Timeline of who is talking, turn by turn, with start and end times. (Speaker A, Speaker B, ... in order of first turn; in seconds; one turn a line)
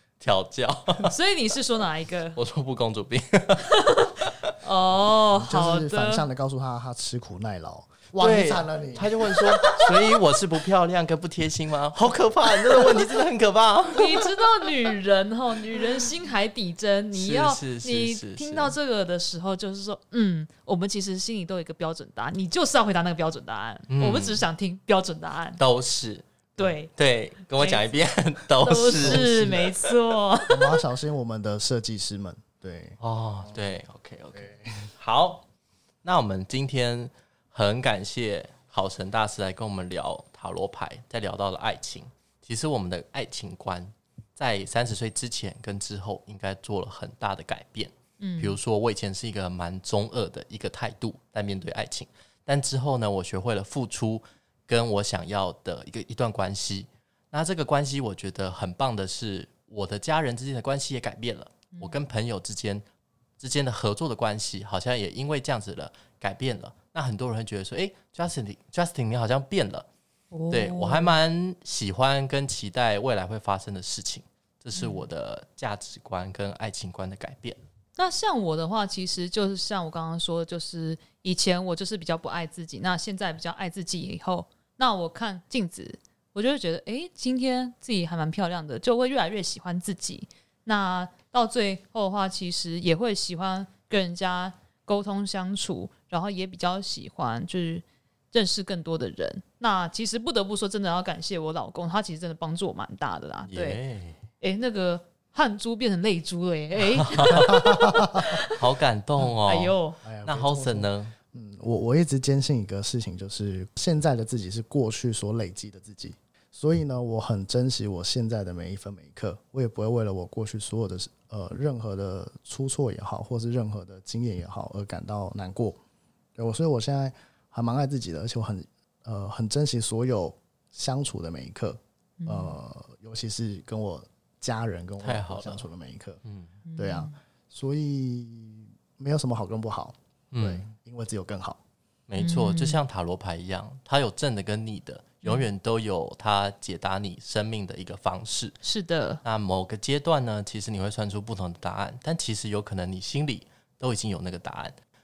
Speaker A: 0.2-1.1
Speaker B: 1.0-2.4
Speaker A: 2.4-3.8
Speaker B: 3.7-6.2
Speaker C: 5.3-9.7
Speaker A: 8.2-14.5
Speaker B: 13.9-25.6
Speaker A: 17.1-18.8
Speaker A: 23.9-24.4
Speaker A: 25.6-26.3
Speaker B: 26.6-26.9
Speaker A: 26.9-29.6
Speaker B: 27.5-27.9
Speaker B: 28.6-30.8
Speaker C: 28.9-29.8
Speaker C: 30.5-33.5
Speaker A: 33.0-35.4
Speaker C: 34.3-34.9
Speaker A: 36.0-62.8
Speaker B: 48.2-48.6
Speaker A: 63.4-69.9
Speaker B: 70.3-71.2
Speaker A: 70.5-77.6
Speaker B: 74.7-75.0
Speaker B: 78.0-103.8
Speaker A: 103.5-104.2
Speaker B: 104.4-108.7
Speaker A: 106.9-107.7
Speaker C: 107.5-108.4
Speaker A: 108.4-111.1
Speaker B: 109.2-110.0
Speaker C: 110.0-125.8
Speaker C: 126.3-136.2
Speaker B: 132.2-132.5
Speaker A: 135.0-135.6
Speaker A: 136.2-136.5
Speaker B: 136.7-137.1
Speaker C: 136.8-141.6
Speaker A: 140.3-140.7
Speaker A: 142.1-148.6
Speaker B: 142.2-142.8
Speaker B: 148.6-149.2
Speaker A: 149.2-154.7